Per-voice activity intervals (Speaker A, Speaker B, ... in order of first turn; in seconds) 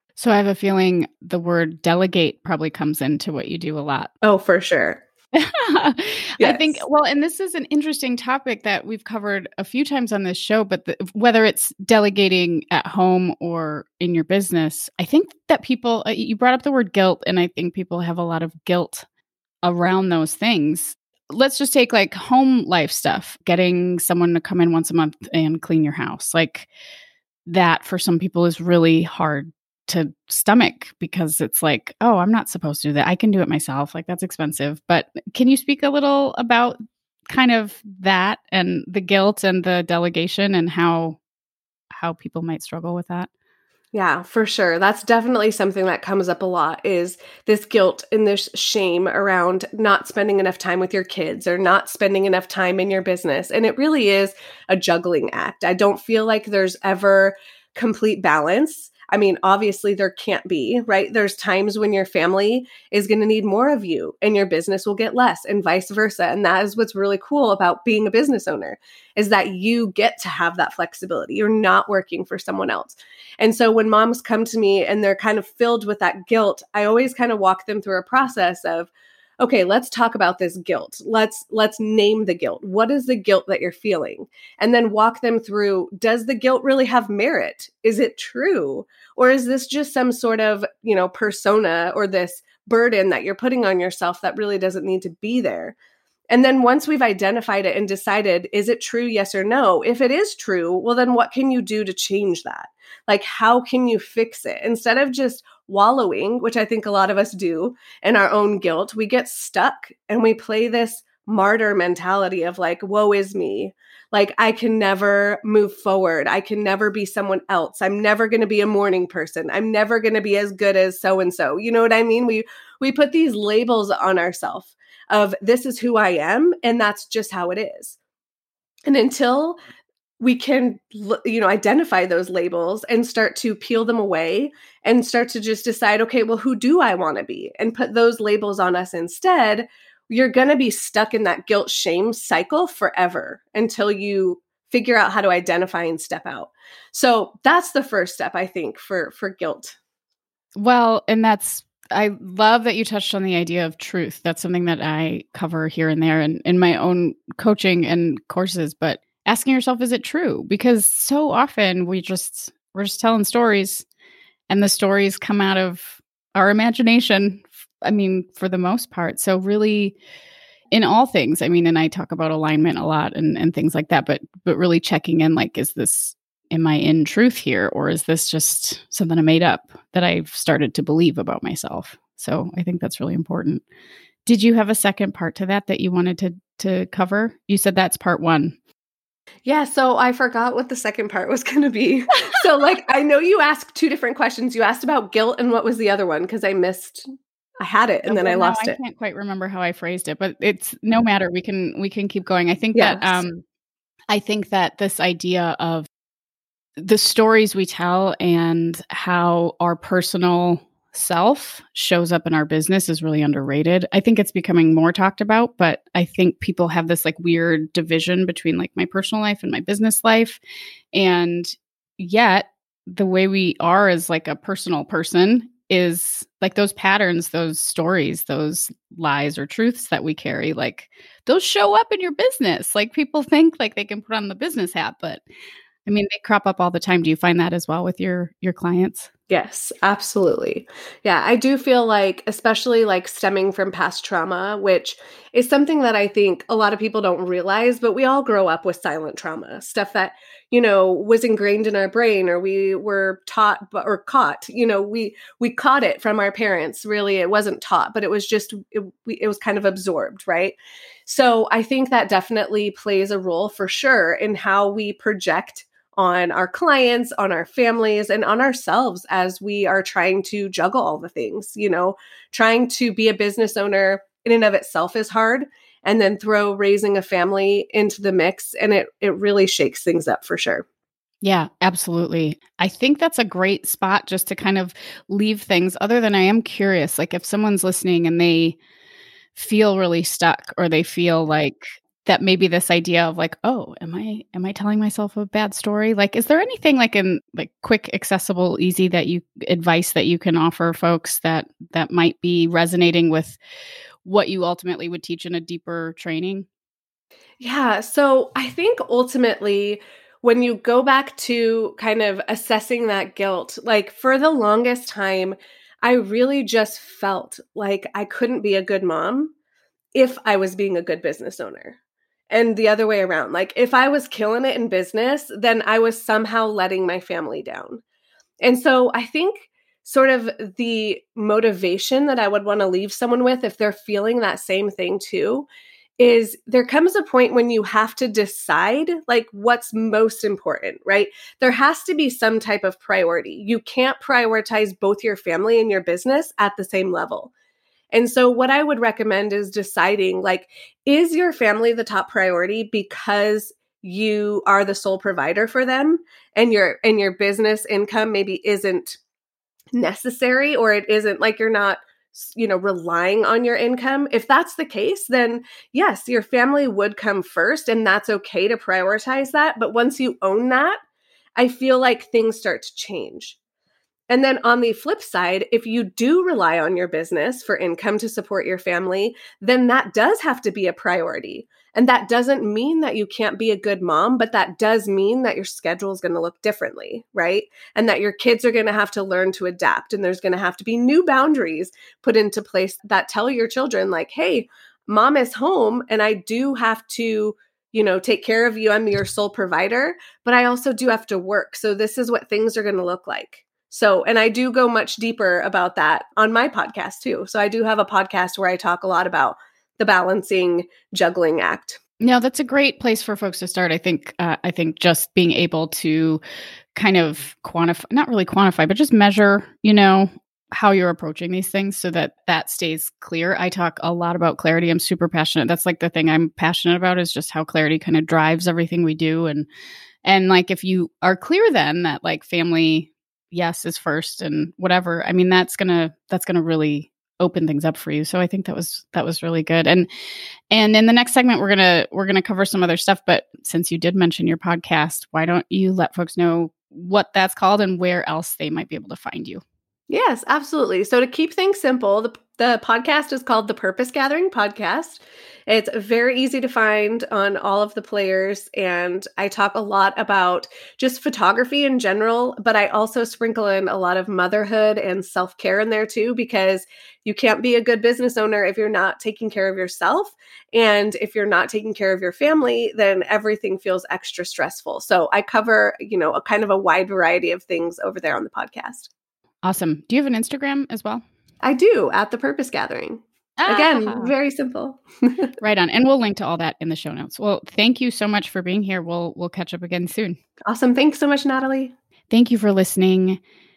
Speaker A: 0.2-4.1, 5.3-19.1, 19.6-26.7, 27.5-36.8, 37.3-41.2, 41.9-43.3, 150.6-163.9, 164.5-170.0, 170.7-183.6, 184.3-188.6, 198.1-203.4, 204.1-205.9, 206.8-220.4, 220.9-235.2, 235.9-239.1, 281.2-288.6, 289.4-303.4, 304.0-306.5, 412.0-416.2, 416.8-429.5, 430.0-439.9, 440.5-449.4, 479.4-481.0, 483.4-484.1, 485.4-490.2, 492.1-493.2
Speaker B: 4.2-5.0, 6.4-6.8, 43.9-95.8, 96.3-128.0, 128.9-129.6, 130.2-149.8, 189.4-197.1, 197.6-198.8, 202.8-203.2, 239.3-280.6, 307.4-319.3, 319.9-321.8, 322.3-327.8, 328.4-335.5, 336.0-347.3, 347.9-359.0, 359.8-370.8, 371.4-373.4, 374.1-411.8, 449.9-478.9, 481.4-485.3, 490.5-491.7